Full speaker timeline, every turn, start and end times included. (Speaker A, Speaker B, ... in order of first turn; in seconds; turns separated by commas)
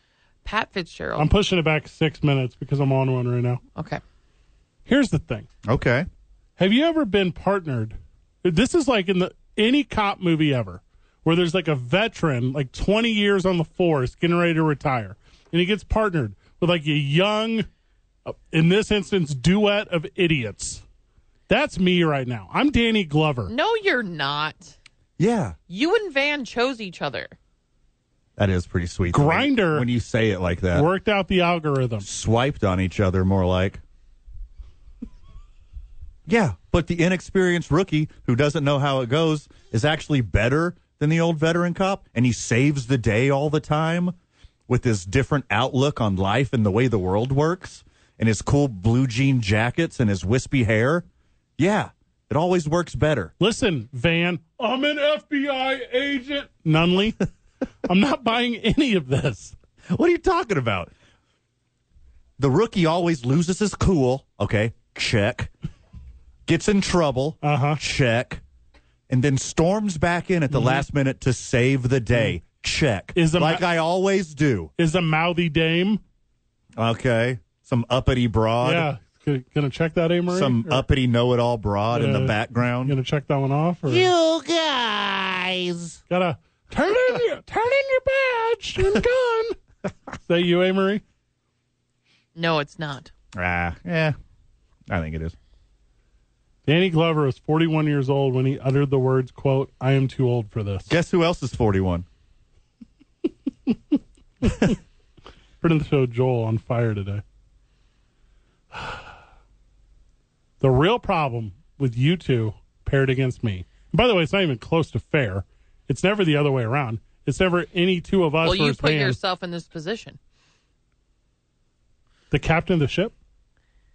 Speaker A: 0.5-1.3, Speaker B: 1.2-3.6, Speaker A: 3.8-4.0, Speaker B: 4.9-5.5, Speaker C: 5.7-6.1, Speaker B: 6.6-17.7, Speaker B: 18.3-20.8, Speaker B: 21.5-23.5, Speaker A: 23.5-24.8, Speaker C: 25.2-25.6, Speaker A: 25.7-27.4, Speaker C: 28.4-30.9, Speaker B: 29.1-29.9, Speaker B: 30.7-32.1, Speaker C: 32.0-33.8, Speaker C: 36.3-44.1, Speaker C: 44.7-51.1, Speaker C: 51.6-53.3, Speaker B: 53.4-57.3, Speaker B: 57.9-59.5, Speaker C: 59.9-60.9, Speaker C: 62.4-65.5, Speaker C: 66.5-68.4, Speaker B: 67.4-67.8, Speaker C: 69.1-74.7, Speaker B: 70.5-70.8, Speaker B: 73.2-73.7, Speaker B: 74.8-76.0, Speaker C: 76.8-78.9, Speaker B: 78.6-80.8, Speaker C: 80.3-83.0, Speaker B: 81.9-84.1, Speaker C: 83.9-86.0, Speaker B: 86.1-89.6, Speaker B: 90.2-91.0, Speaker A: 92.4-93.1, Speaker C: 93.3-94.2, Speaker C: 94.9-95.3, Speaker B: 96.7-100.9, Speaker C: 100.9-102.1, Speaker B: 103.7-104.8, Speaker B: 105.6-107.2, Speaker B: 108.7-109.1, Speaker B: 110.6-119.2, Speaker A: 118.4-120.2, Speaker B: 122.3-123.1